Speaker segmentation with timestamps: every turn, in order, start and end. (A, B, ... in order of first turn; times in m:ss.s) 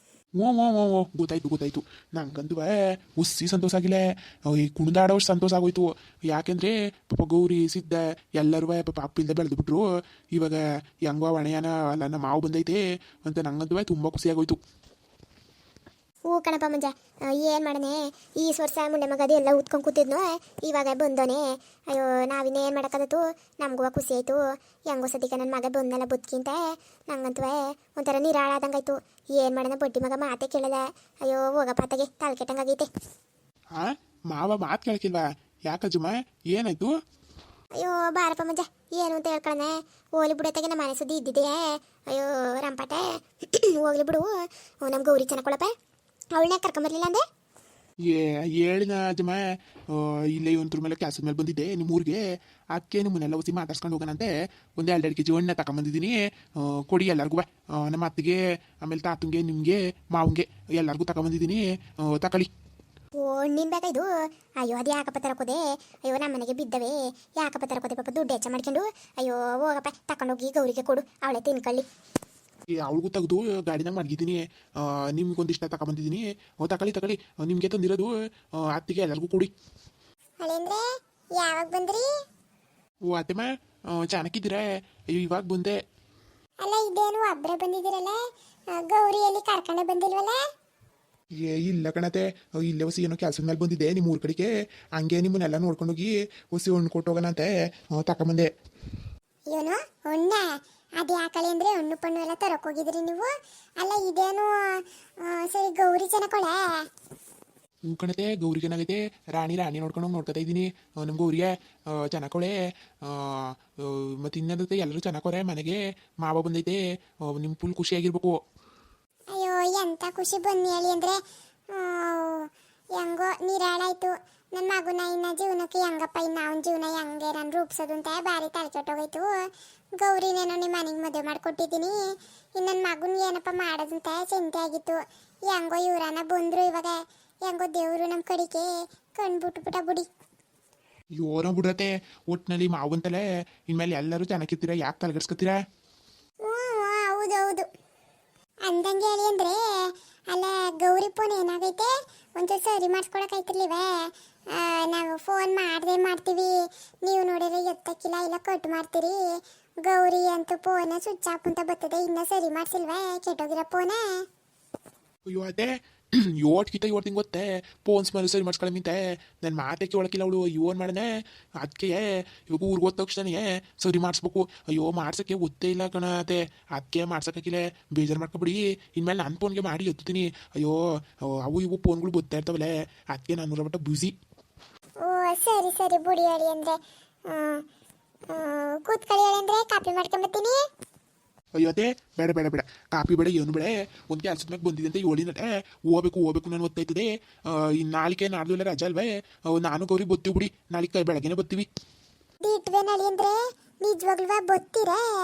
0:00.4-0:14.6 A
0:16.3-0:32.9 B
0:33.8-0:37.0 A
0:37.8-0:45.7 B
0:46.3-0:47.2 B
0:48.1-0:49.4 A
0:49.9-0:52.2 A
0:52.7-1:02.5 A
1:03.2-1:04.1 B
1:04.6-1:11.8 B
1:12.8-1:18.1 A
1:18.7-1:19.5 A
1:20.4-1:20.8 C
1:21.4-1:22.1 C
1:23.1-1:25.8 A
1:26.6-1:28.2 C
1:28.7-1:30.4 C
1:31.4-1:38.5 A
1:39.5-1:40.5 C
1:41.0-1:46.6 C
1:47.9-1:58.4 A
1:59.3-2:01.2 C
2:01.7-2:09.3 C
2:10.0-2:12.0 C
2:12.6-2:20.1 C
2:21.2-2:25.6 A
2:26.4-2:27.7 C
2:28.7-2:39.2 C
2:39.8-2:44.2 C
2:45.3-2:51.1 A
2:51.6-3:04.1 A
3:05.0-3:06.8 C
3:07.3-3:07.6 C
3:08.3-3:10.6 C
3:11.6-3:21.7 A
3:22.4-3:25.0 C